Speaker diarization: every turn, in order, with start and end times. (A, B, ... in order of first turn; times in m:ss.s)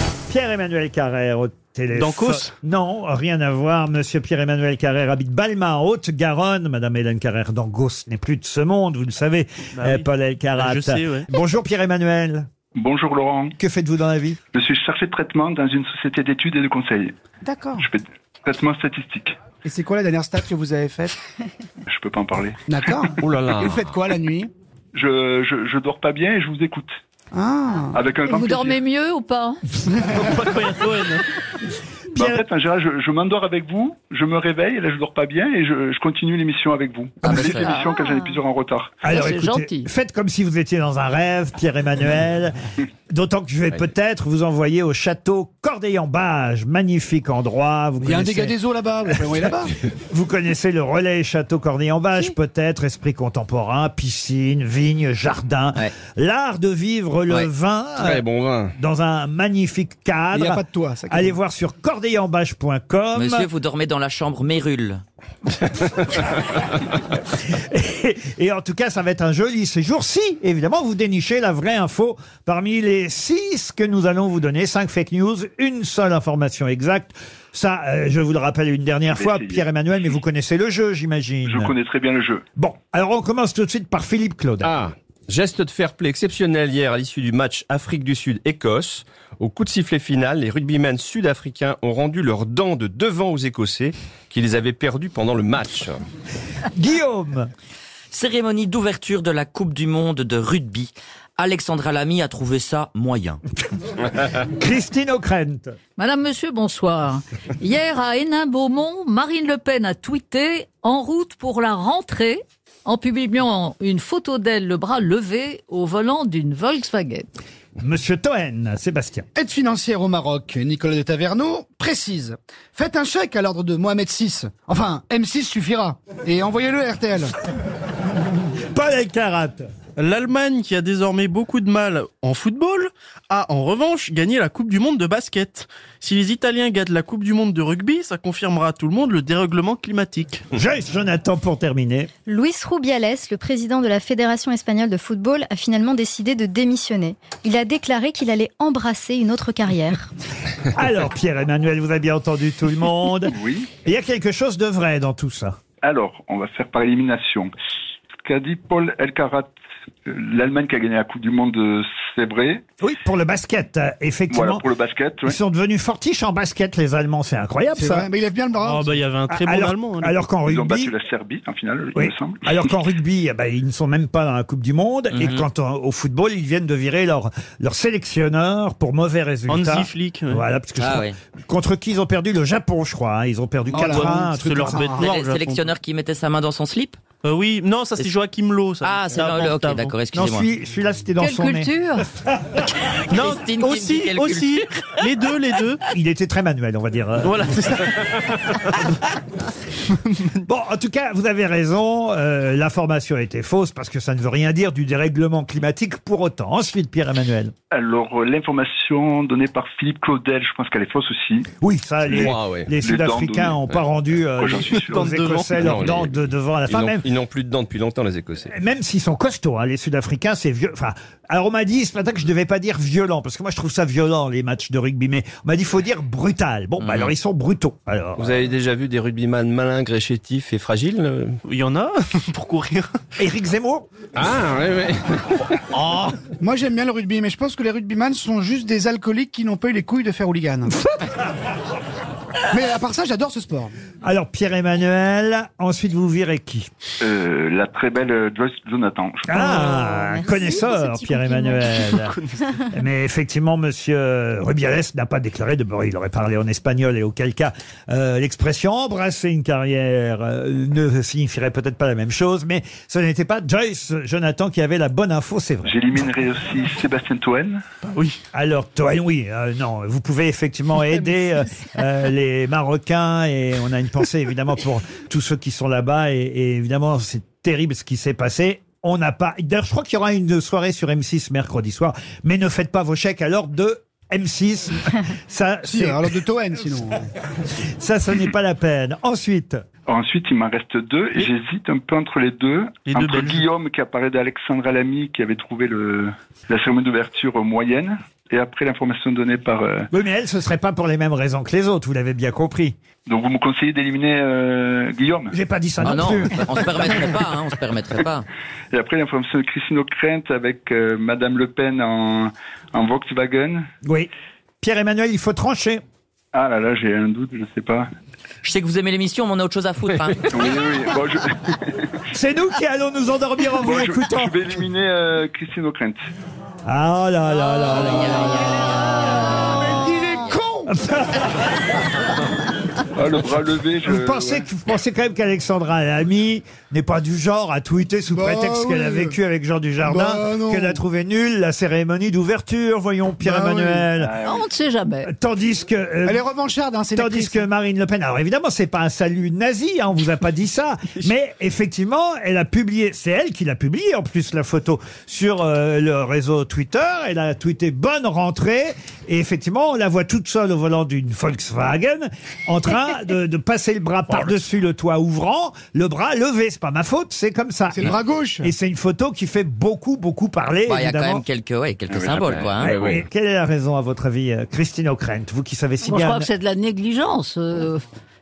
0:00.3-0:12.5 A
0:01.9-0:02.5 B
0:09.8-0:11.3 B
0:12.8-0:13.5 C
0:13.6-0:14.4 A
0:14.5-0:17.1 C
0:17.4-0:17.9 D
0:17.8-0:19.4 C
0:19.6-0:21.2 D
0:21.9-0:23.0 C
0:22.7-0:24.5 D
0:23.2-0:23.8 E
0:24.9-0:26.9 C
0:27.3-0:28.0 D
0:27.9-0:28.8 C
0:28.2-0:29.6 F
0:30.0-0:31.2 B
0:32.2-0:32.4 A
0:32.2-0:39.0 C
0:37.3-0:37.8 G
0:37.6-0:38.1 F
0:39.0-0:42.5 A
0:39.0-0:39.9 F
0:43.1-0:48.6 A
0:48.0-0:49.8 D
0:49.9-1:03.5 A
0:58.0-0:58.8 E
1:00.3-1:01.4 D
1:03.1-1:05.0 G
1:07.4-1:21.7 A
1:19.1-1:19.6 C
1:21.4-1:22.4 C
1:22.6-1:24.8 A
1:24.6-1:36.0 E
1:36.7-1:37.5 A
1:38.1-1:43.4 G
1:44.4-1:45.8 A
1:46.0-1:57.3 F
1:57.8-1:59.2 A
1:59.3-2:07.4 D
2:08.7-2:09.7 A
2:10.0-2:20.4 B
2:20.5-2:22.1 A
2:22.2-2:30.1 H
2:30.7-2:35.6 A
2:33.3-2:33.7 C
2:35.8-2:37.5 C
2:38.2-2:39.5 C
2:40.0-2:42.6 C
2:42.8-2:44.6 A
2:44.3-2:45.4 C
2:45.2-2:48.1 A
2:47.7-2:49.0 D
2:48.6-2:50.2 B
2:49.3-2:50.9 A
2:50.5-2:52.5 C
2:51.9-3:04.9 A
2:55.1-2:55.4 G
2:59.5-3:00.4 B
3:00.8-3:01.1 G
3:03.7-3:05.2 D
3:03.8-3:05.7 B
3:05.0-3:07.0 G
3:07.2-3:10.0 B
3:08.9-3:10.5 G
3:10.1-3:12.7 A
3:11.2-3:12.0 F
3:13.1-3:15.8 B
3:13.1-3:14.6 G
3:15.9-3:17.4 A
3:17.2-3:19.0 B
3:19.8-3:20.4 B
3:20.4-3:27.5 A
3:27.7-3:31.5 C
3:31.6-3:37.1 A
3:32.0-3:32.8 E
3:32.8-3:33.6 C
3:34.4-3:35.1 C
3:34.7-3:35.6 B
3:35.5-3:38.5 E
3:38.5-3:48.4 A
3:46.8-3:47.1 G
3:48.2-3:51.4 E
3:51.4-3:53.0 B
3:53.2-3:53.9 A
3:54.2-3:56.2 E
3:56.4-4:00.8 D
4:02.5-4:03.7 D
4:04.0-4:06.7 A
4:07.0-4:09.4 C
4:09.3-4:25.8 A
4:09.3-4:11.6 H
4:11.7-4:12.4 B
4:25.6-4:27.6 C
4:27.9-4:28.2 B
4:28.3-4:46.1 A
4:45.7-4:47.1 D
4:47.5-4:49.6 A
4:49.9-4:59.9 C
4:52.9-4:53.5 B
4:59.9-5:02.8 A
5:03.1-5:05.3 C
5:05.3-5:07.0 A
5:05.8-5:08.2 G
5:08.7-5:13.7 C
5:13.8-5:14.1 A
5:14.6-5:15.8 A
5:16.3-5:17.9 C
5:18.4-5:20.2 G
5:20.3-5:21.9 C
5:22.1-5:24.6 A
5:23.6-5:26.0 C
5:26.6-5:29.3 A
5:27.5-5:28.8 G
5:29.3-5:30.7 D
5:30.7-5:31.4 A
5:33.0-5:34.5 C
5:33.8-5:44.1 A
5:38.1-5:39.1 D
5:39.8-5:40.8 D
5:43.2-5:43.8 D
5:44.0-5:44.4 C
5:44.2-5:45.1 F
5:45.0-5:46.2 A
5:46.1-5:47.4 D
5:46.9-6:11.2 A
6:07.7-6:08.5 D
6:10.7-6:12.8 G
6:11.9-6:12.5 C
6:12.1-6:13.0 E
6:12.6-6:16.3 A
6:15.8-6:17.8 F